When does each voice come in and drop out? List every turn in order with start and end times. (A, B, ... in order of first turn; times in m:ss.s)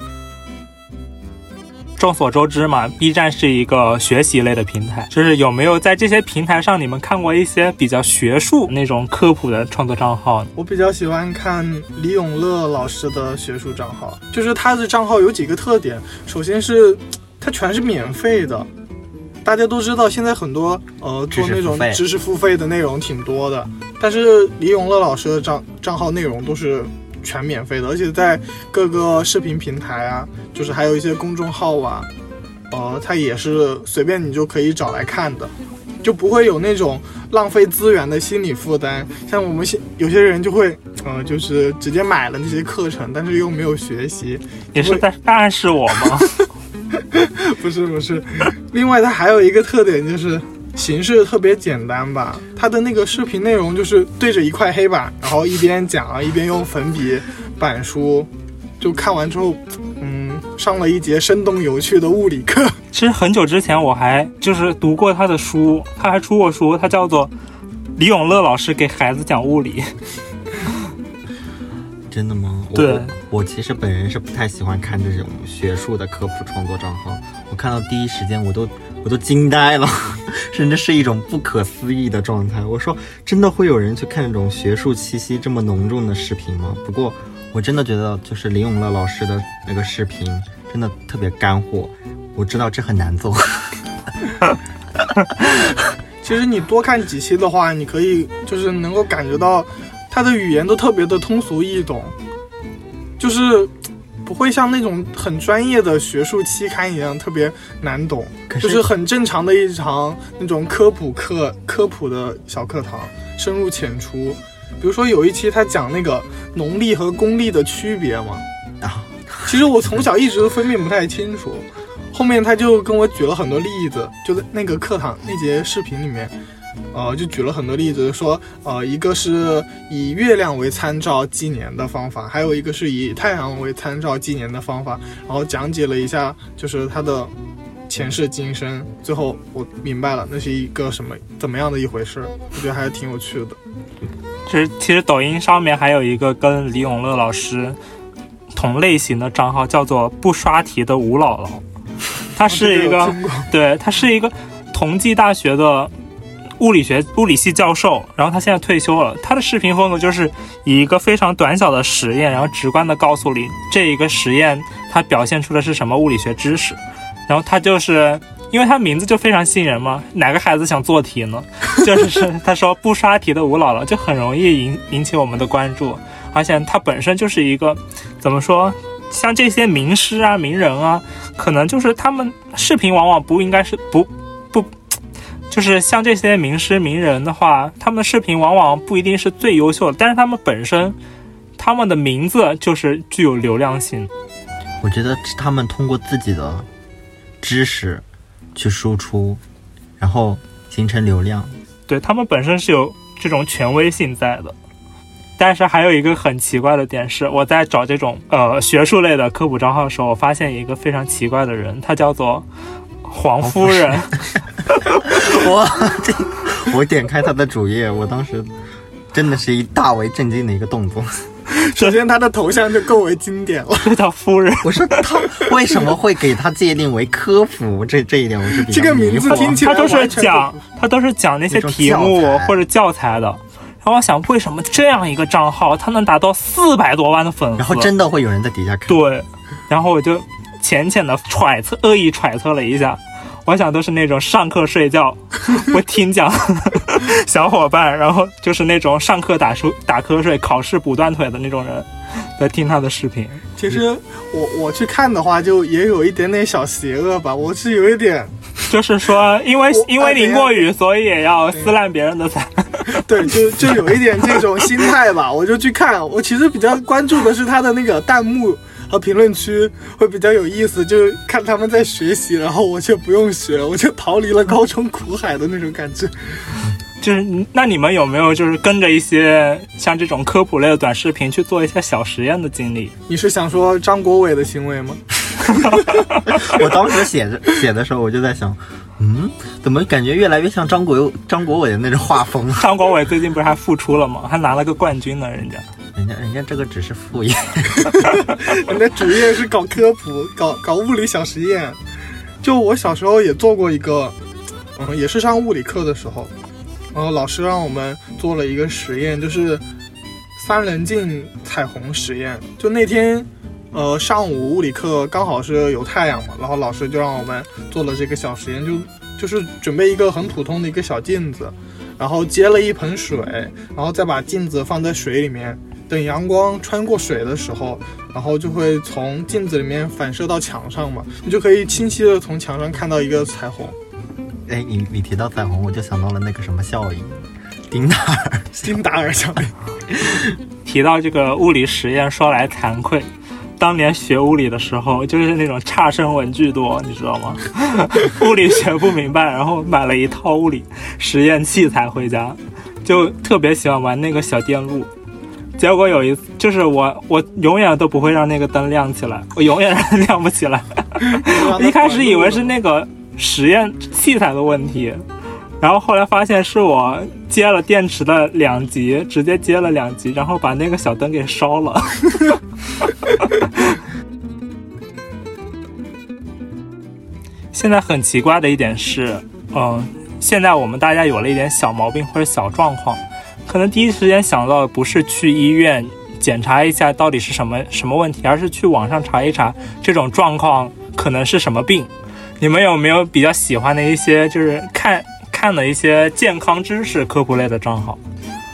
0:02.0-0:10.5 A
0:10.6-0:18.7 B
0:19.4-0:32.1 B
0:21.3-0:22.0 C
0:32.7-0:45.0 B
0:44.7-0:46.3 A
0:47.1-0:58.3 B
0:58.8-1:02.8 B
1:02.9-1:07.3 A
1:08.0-1:09.9 A
1:12.1-1:33.8 C
1:12.7-1:13.1 A
1:36.2-1:42.1 B
1:43.2-1:43.7 B
1:44.2-1:58.4 B
1:48.5-1:48.9 C
1:58.8-1:59.6 C
1:59.4-2:06.3 B
2:06.9-2:17.3 B
2:17.9-2:23.6 B
2:24.5-2:27.8 A
2:28.5-2:31.6 A
2:32.3-2:35.9 A
2:32.5-2:33.5 B
2:36.6-3:04.7 A
3:05.5-3:11.0 A
3:11.6-3:14.1 A
3:14.8-3:16.7 C
3:17.4-3:19.4 C
3:20.0-3:21.6 C
3:21.9-3:24.6 A
3:25.4-3:32.4 A
3:33.0-3:34.2 A
3:35.0-3:38.5 C
3:39.1-3:41.3 C
3:41.5-3:43.9 B
3:41.7-3:41.9 A
3:43.8-3:45.0 A
3:44.6-3:49.7 C
3:48.6-3:50.6 B
3:49.3-3:57.9 A
3:51.5-3:52.6 C
3:57.6-3:59.0 C
3:58.9-4:13.4 A
4:13.6-4:18.3 B
4:18.7-4:23.0 A
4:19.7-4:20.6 B
4:22.9-4:36.6 B
4:37.0-4:42.9 A
4:43.1-4:45.0 B
4:46.3-4:52.7 C
4:52.6-4:55.6 A
4:55.9-4:58.3 C
4:58.5-5:01.8 B
5:02.4-5:04.1 B
5:04.8-5:06.3 B
5:06.9-5:09.6 B
5:10.4-5:33.7 B
5:34.5-5:38.7 C
5:38.6-5:39.5 B
5:39.9-5:40.2 C
5:40.6-5:54.9 A
5:55.6-6:05.0 A
6:01.1-6:02.5 B
6:05.6-6:12.3 A
6:13.2-6:13.4 A
6:17.5-6:38.0 A